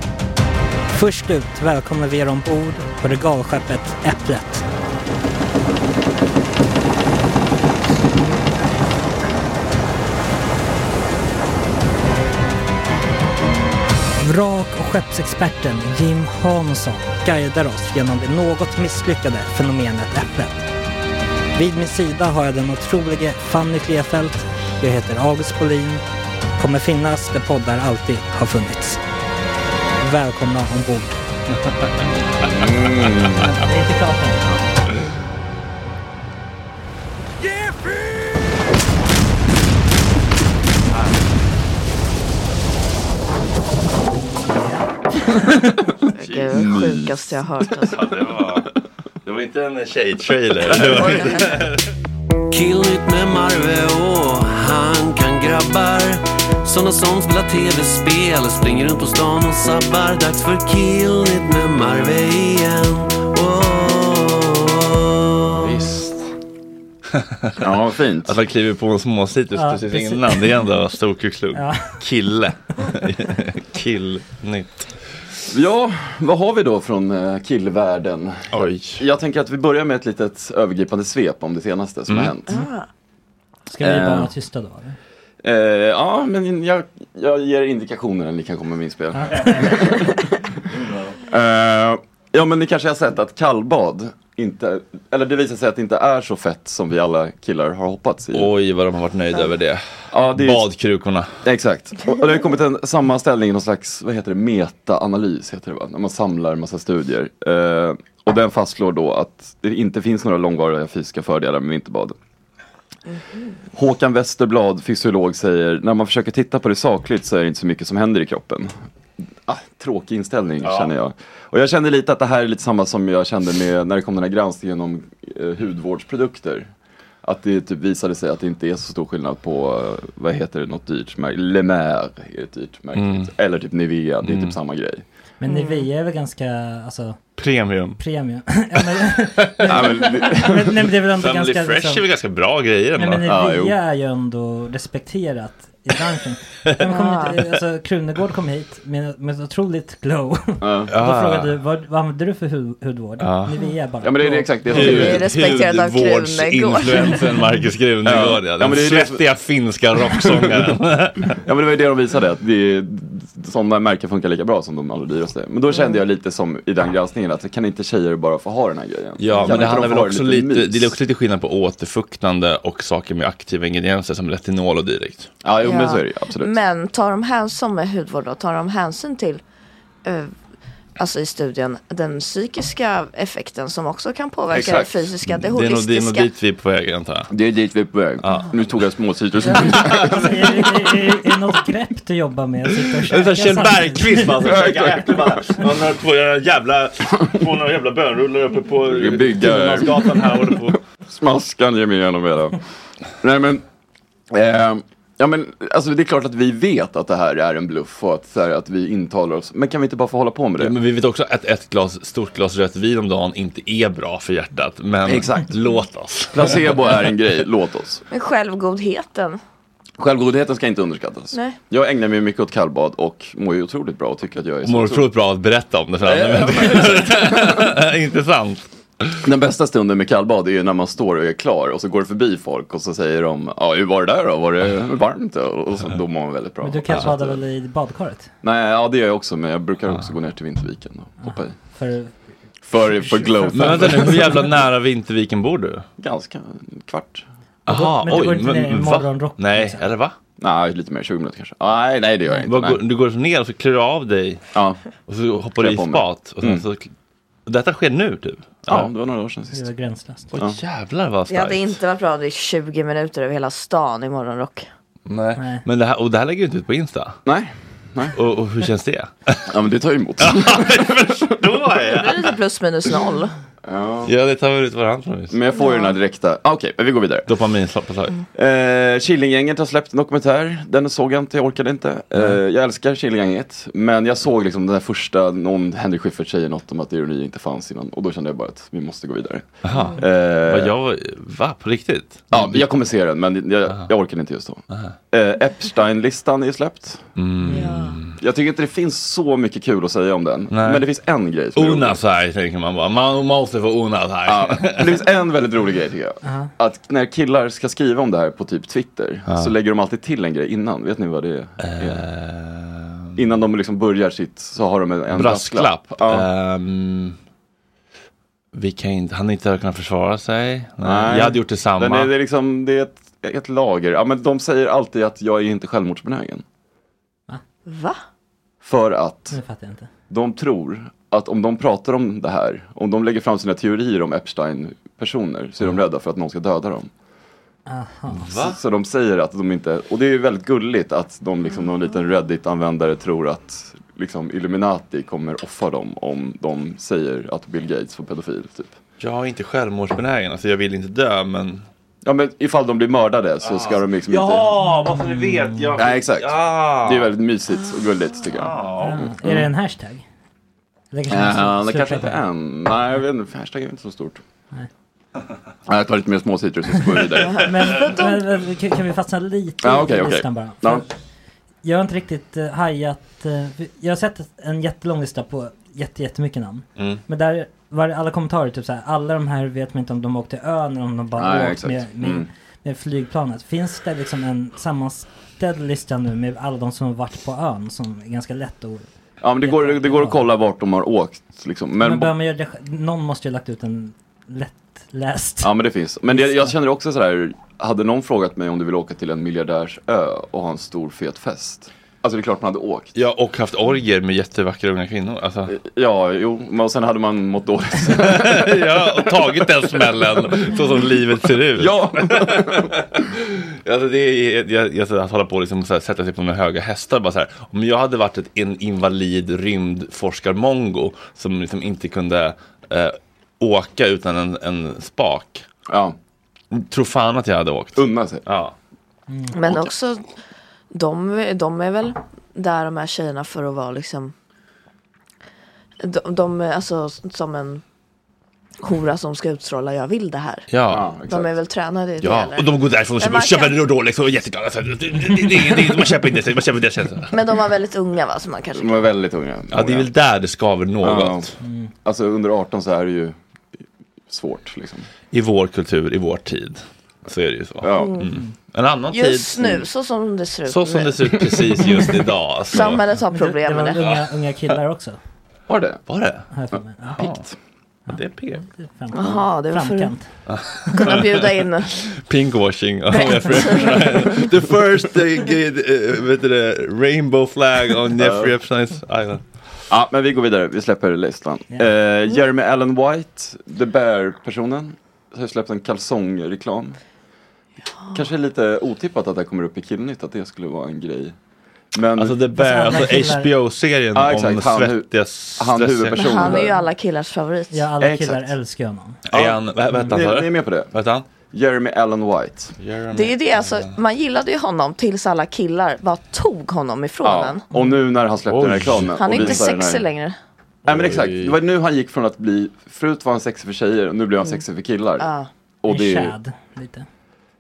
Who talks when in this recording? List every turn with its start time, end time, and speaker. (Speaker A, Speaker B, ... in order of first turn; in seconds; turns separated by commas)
Speaker A: 0.9-4.7, Speaker A: 14.2-20.7, Speaker A: 21.6-26.0, Speaker A: 26.6-29.0, Speaker A: 30.0-31.2, Speaker B: 32.4-33.6, Speaker A: 33.4-34.5, Speaker C: 46.1-48.0, Speaker D: 46.2-46.5, Speaker B: 46.5-47.8, Speaker D: 47.9-48.7, Speaker D: 49.2-51.9, Speaker B: 50.7-51.4, Speaker C: 51.1-51.4, Speaker E: 52.5-65.6, Speaker B: 65.6-66.1, Speaker B: 67.6-68.3, Speaker D: 68.2-74.9, Speaker A: 69.5-70.5, Speaker A: 71.5-72.0, Speaker B: 75.5-82.5, Speaker D: 78.5-79.0, Speaker D: 82.1-82.3, Speaker C: 82.5-82.9, Speaker A: 83.7-85.0, Speaker B: 83.8-84.3, Speaker B: 85.4-90.5, Speaker A: 89.2-89.8, Speaker B: 91.2-98.5, Speaker D: 98.3-101.3, Speaker B: 100.1-100.7, Speaker B: 101.5-112.2, Speaker B: 113.7-118.7, Speaker B: 119.5-126.7, Speaker D: 120.6-120.9, Speaker B: 127.2-135.0, Speaker D: 132.9-133.3, Speaker D: 134.2-134.6, Speaker A: 135.4-137.2, Speaker C: 135.5-135.8, Speaker D: 137.4-138.0, Speaker A: 138.0-142.1, Speaker B: 139.6-140.8, Speaker D: 141.2-143.3, Speaker A: 143.0-154.9, Speaker B: 143.2-143.8, Speaker C: 146.8-147.4, Speaker B: 150.6-150.9, Speaker D: 150.9-151.5, Speaker D: 153.2-153.5, Speaker B: 154.0-155.3, Speaker D: 154.7-161.4, Speaker C: 154.8-157.3, Speaker B: 158.1-159.2, Speaker B: 160.1-160.6, Speaker B: 161.3-170.9, Speaker D: 169.2-175.3, Speaker B: 175.4-176.6, Speaker C: 175.6-179.4, Speaker C: 180.1-180.3, Speaker C: 181.0-186.3, Speaker B: 184.5-185.1, Speaker D: 185.5-187.3, Speaker B: 187.3-190.6, Speaker D: 188.2-188.5, Speaker A: 189.5-194.4, Speaker D: 189.6-190.2, Speaker D: 193.1-200.8, Speaker B: 194.4-195.6, Speaker B: 198.8-202.6, Speaker B: 203.2-203.6, Speaker B: 204.3-210.8, Speaker D: 210.6-217.1, Speaker B: 215.1-215.6, Speaker B: 216.3-218.0, Speaker C: 218.1-219.4, Speaker B: 220.0-225.1, Speaker C: 221.3-221.6, Speaker D: 224.7-229.2, Speaker B: 226.0-227.8, Speaker B: 229.2-237.4, Speaker A: 236.6-238.3, Speaker B: 238.4-241.6, Speaker A: 241.2-242.1, Speaker B: 242.7-244.4, Speaker A: 243.0-243.6, Speaker D: 243.5-245.8, Speaker B: 246.0-247.2, Speaker D: 247.7-250.1, Speaker A: 247.7-249.8, Speaker B: 250.4-252.8, Speaker D: 252.4-254.4, Speaker B: 254.5-254.8, Speaker D: 255.1-256.9, Speaker B: 255.6-256.6, Speaker D: 257.5-258.9, Speaker B: 258.7-259.7, Speaker A: 259.5-260.3, Speaker D: 260.3-261.8, Speaker C: 261.3-264.7, Speaker D: 265.1-267.2, Speaker A: 265.4-265.6, Speaker B: 267.3-268.2, Speaker D: 268.1-269.5, Speaker B: 269.5-271.3, Speaker D: 270.2-272.4, Speaker C: 271.9-273.3, Speaker B: 273.6-274.1, Speaker D: 274.1-275.4, Speaker B: 275.3-277.3, Speaker C: 275.5-276.0, Speaker D: 277.3-278.1, Speaker B: 278.3-290.7, Speaker D: 289.6-292.7, Speaker B: 292.3-297.0, Speaker D: 297.2-298.2, Speaker C: 297.5-298.0, Speaker B: 298.2-302.0, Speaker D: 300.5-300.9, Speaker D: 301.6-305.0, Speaker B: 304.3-312.0, Speaker A: 306.2-306.5, Speaker D: 309.3-309.5, Speaker D: 311.6-313.1, Speaker B: 313.2-316.3, Speaker D: 315.1-317.2, Speaker D: 318.5-322.1, Speaker B: 320.8-326.4, Speaker C: 327.7-328.0, Speaker B: 328.6-329.4, Speaker A: 329.3-329.9, Speaker B: 330.1-336.9, Speaker A: 337.7-338.5, Speaker D: 338.1-338.6, Speaker B: 338.4-348.8, Speaker D: 349.0-351.6, Speaker B: 352.0-354.5, Speaker D: 353.4-357.1, Speaker A: 354.7-355.7, Speaker B: 355.8-358.6, Speaker D: 358.3-359.1, Speaker A: 358.8-360.1, Speaker A: 360.9-362.2, Speaker B: 361.1-364.2, Speaker B: 365.7-367.5, Speaker A: 367.3-370.9, Speaker C: 367.4-368.1, Speaker B: 369.6-370.9, Speaker A: 371.6-388.9, Speaker B: 381.2-382.3, Speaker B: 389.2-392.1, Speaker A: 389.4-390.2, Speaker A: 391.8-395.5, Speaker B: 395.4-402.9, Speaker A: 396.1-396.5, Speaker D: 402.9-405.5, Speaker B: 405.5-408.8, Speaker D: 407.9-425.4, Speaker B: 411.6-412.7, Speaker B: 425.7-425.9, Speaker D: 426.5-428.5, Speaker B: 427.8-428.2, Speaker A: 429.1-429.4, Speaker C: 429.3-430.1, Speaker C: 430.7-434.1, Speaker C: 435.8-437.6, Speaker C: 438.6-440.5, Speaker D: 440.5-440.9, Speaker B: 440.7-441.3, Speaker C: 441.1-443.6, Speaker D: 442.0-447.1, Speaker C: 447.1-448.8, Speaker B: 448.6-449.9, Speaker D: 449.5-451.3, Speaker B: 450.8-453.2, Speaker A: 451.4-451.7, Speaker B: 454.1-454.9, Speaker D: 455.1-459.7, Speaker B: 457.6-458.0, Speaker C: 457.7-458.1, Speaker C: 458.9-461.0, Speaker D: 460.5-462.8, Speaker C: 462.5-463.8, Speaker A: 463.1-465.0, Speaker B: 465.5-465.8, Speaker D: 465.9-466.3, Speaker A: 466.3-467.1, Speaker D: 467.9-468.4, Speaker A: 467.9-470.1, Speaker C: 468.9-469.9, Speaker D: 470.3-479.2, Speaker C: 470.7-471.7, Speaker C: 473.0-473.8, Speaker B: 478.0-478.3, Speaker B: 479.7-486.8, Speaker B: 487.9-491.1, Speaker B: 491.7-492.1, Speaker D: 492.0-496.4, Speaker A: 492.4-493.3, Speaker B: 493.9-496.6, Speaker C: 495.9-497.7, Speaker A: 497.5-499.0, Speaker B: 497.8-498.3, Speaker D: 499.1-501.1, Speaker B: 499.1-500.7, Speaker B: 501.3-502.6, Speaker D: 502.6-503.7, Speaker C: 502.9-507.5, Speaker B: 507.0-509.9, Speaker D: 508.3-509.4, Speaker C: 508.9-510.2, Speaker D: 510.7-511.4, Speaker B: 510.7-515.1, Speaker C: 515.0-515.3, Speaker B: 515.6-516.1, Speaker A: 515.7-516.9